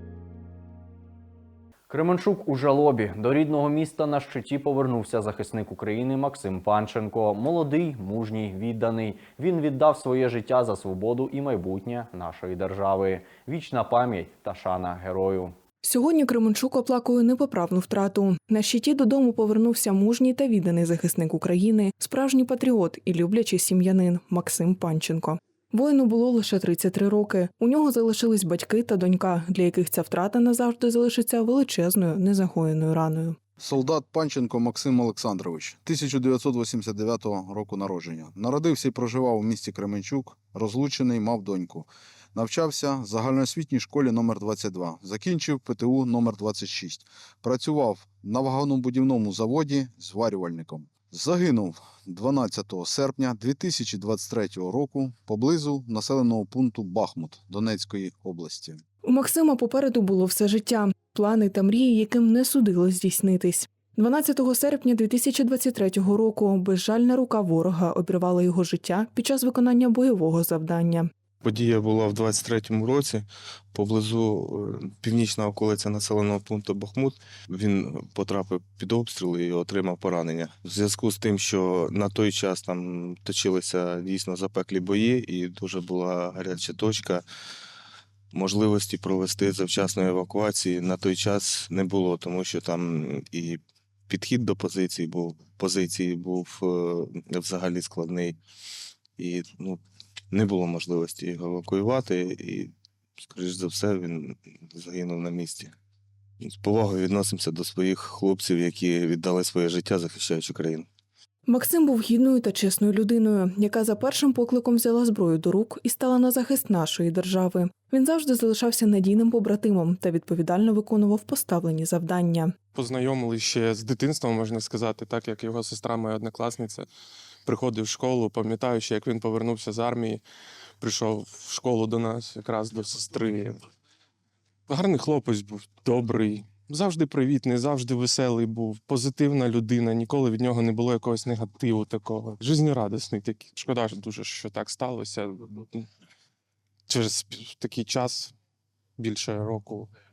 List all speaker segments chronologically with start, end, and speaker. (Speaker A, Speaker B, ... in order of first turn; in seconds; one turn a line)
Speaker A: 1.9-15.5
Speaker B: 15.8-33.4
Speaker C: 33.6-58.8
Speaker B: 59.0-71.1
Speaker D: 71.4-87.2
Speaker D: 88.3-98.3
Speaker D: 99.2-99.8
Speaker D: 100.3-102.7
Speaker D: 103.2-105.7
Speaker D: 106.4-110.8
Speaker B: 111.5-122.5
Speaker E: 122.8-124.0
Speaker E: 125.0-126.8
Speaker E: 127.5-130.2
Speaker E: 130.8-133.5
Speaker E: 134.7-140.9
Speaker E: 141.4-145.8
Speaker E: 146.9-148.3
Speaker E: 149.0-149.9